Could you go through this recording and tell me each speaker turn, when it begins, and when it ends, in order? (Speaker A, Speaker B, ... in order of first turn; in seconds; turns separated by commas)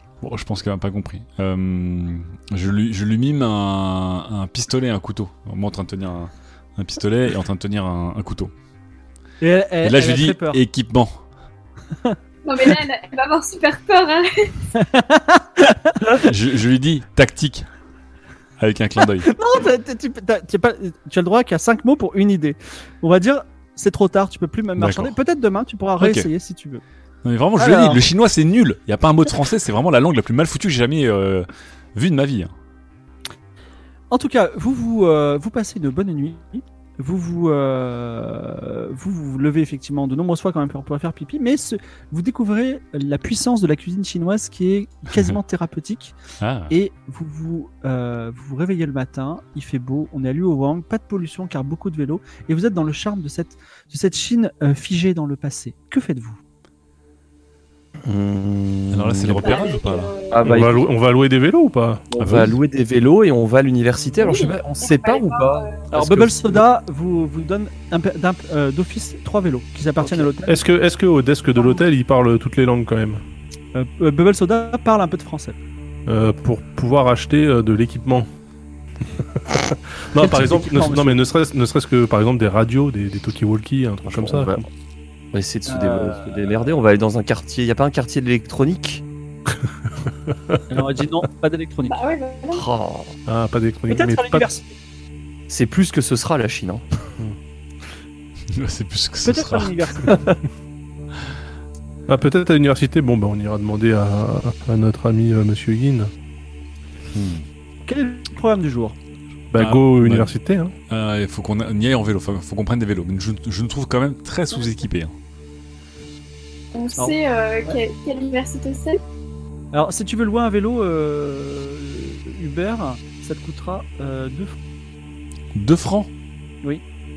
Speaker A: 0.2-8.5, Speaker B: 9.4-10.6, Speaker A: 9.8-11.1, Speaker C: 12.4-14.5, Speaker B: 14.8-16.2, Speaker A: 16.2-17.7, Speaker A: 18.6-19.3, Speaker B: 19.2-26.8, Speaker A: 24.8-25.1, Speaker A: 26.0-26.3, Speaker A: 27.2-32.5, Speaker B: 27.6-28.0, Speaker B: 34.1-46.2, Speaker A: 46.4-46.7, Speaker B: 46.7-56.4, Speaker D: 58.0-59.7, Speaker A: 58.9-60.1, Speaker C: 59.4-60.5, Speaker D: 60.3-60.9, Speaker E: 60.4-62.0, Speaker D: 62.1-66.3, Speaker A: 62.2-62.6, Speaker C: 64.2-65.8, Speaker B: 65.9-70.6, Speaker E: 70.5-73.2, Speaker B: 73.7-75.6, Speaker E: 76.1-78.3, Speaker E: 79.2-84.7, Speaker B: 80.2-81.2, Speaker D: 84.0-84.7, Speaker D: 85.3-89.0, Speaker B: 85.7-86.5, Speaker E: 90.3-90.6, Speaker B: 90.7-92.0, Speaker C: 91.9-92.6, Speaker D: 92.5-93.1, Speaker E: 93.3-94.5, Speaker B: 93.9-94.7, Speaker D: 95.5-96.8, Speaker A: 98.5-99.7, Speaker B: 99.2-100.3, Speaker E: 102.1-106.1, Speaker A: 107.1-107.5, Speaker B: 107.9-109.0, Speaker E: 109.5-110.7, Speaker A: 109.5-110.3, Speaker A: 110.9-115.1, Speaker C: 114.5-114.8, Speaker C: 116.7-119.0, Speaker B: 117.0-117.8, Speaker B: 119.7-124.6, Speaker A: 125.5-126.1